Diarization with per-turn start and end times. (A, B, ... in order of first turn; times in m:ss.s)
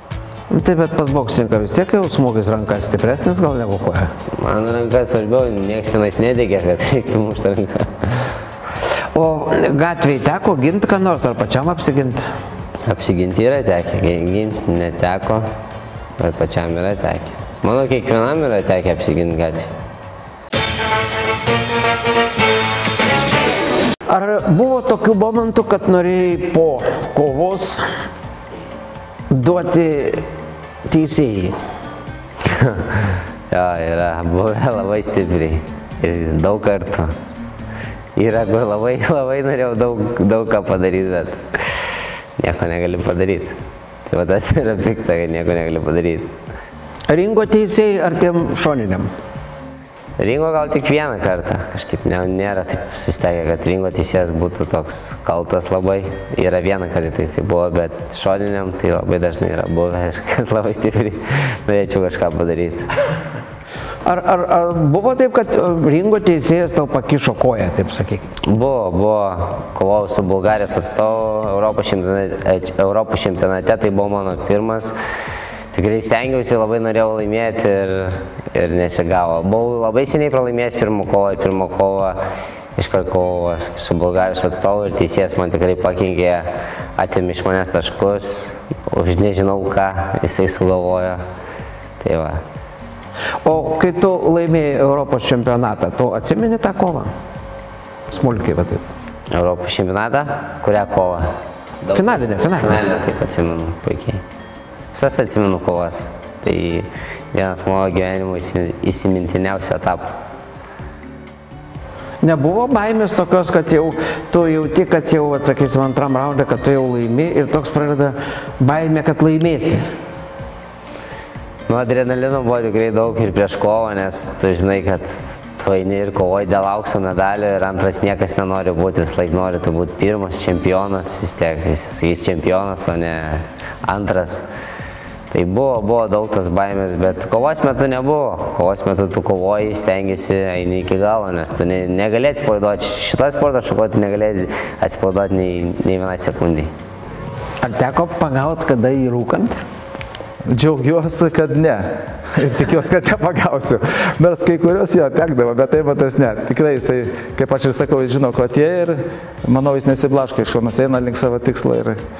0:00.5-0:04.1 A
0:04.3-0:08.3 B
0:09.1-0:12.2 A
0:12.8-0:15.5 B
0:16.2-0:19.7 B
0:24.1-0:27.9 A
0:29.3-0:30.3 A
0:30.8-0:31.6 A
0:32.4-0:37.1 B
0:38.2-0:46.3 B
0:47.1-0:49.1 A
0:50.2-1:02.9 B
1:04.0-1:08.3 A
1:08.4-1:14.9 B
1:15.7-1:22.2 B
1:22.8-1:31.2 B
1:32.0-1:32.4 B
1:33.4-1:37.1 A
1:38.1-1:38.9 A
1:39.3-1:41.3 B
1:41.9-1:44.2 B
1:41.9-1:42.8 A
1:44.9-1:50.2 B
1:52.2-1:59.8 A
2:01.7-2:14.4 B
2:15.3-2:26.7 B
2:27.6-2:29.7 A
2:30.5-2:42.0 C